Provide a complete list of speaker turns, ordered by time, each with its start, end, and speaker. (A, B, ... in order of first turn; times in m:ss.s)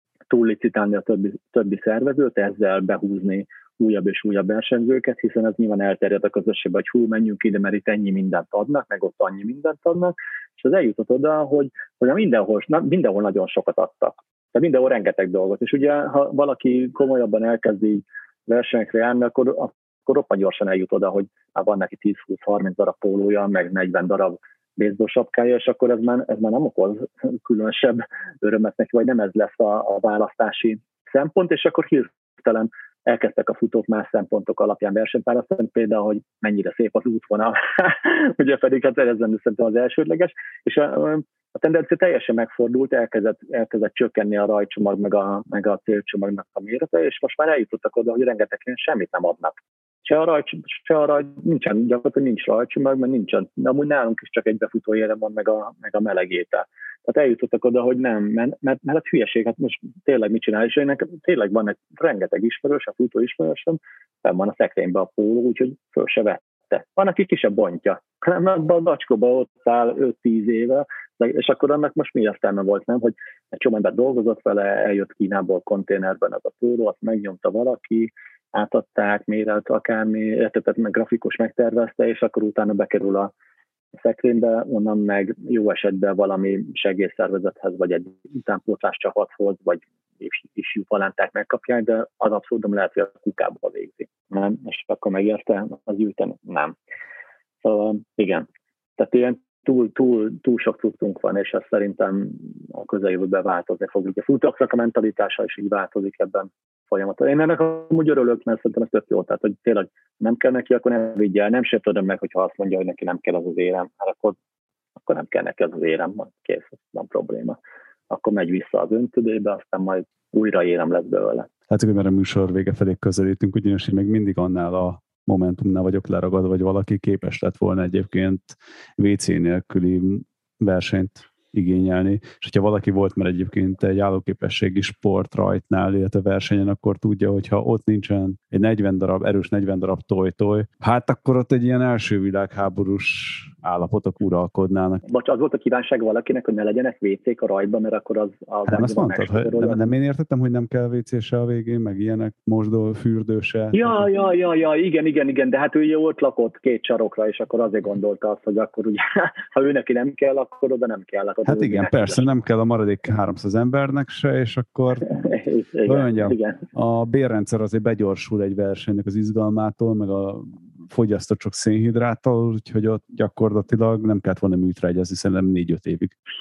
0:00.3-1:23.3 A
1:23.9-1:36.7 A
1:37.6-1:38.5 A
1:39.0-1:54.4 A
1:55.0-1:57.6 A
1:58.1-2:01.5 A
2:01.7-2:25.0 B
2:25.0-2:29.8 A
2:28.7-2:34.0 B
2:33.7-2:42.3 A
2:41.4-2:45.2 B
2:45.1-2:46.6 A
2:45.8-2:56.1 B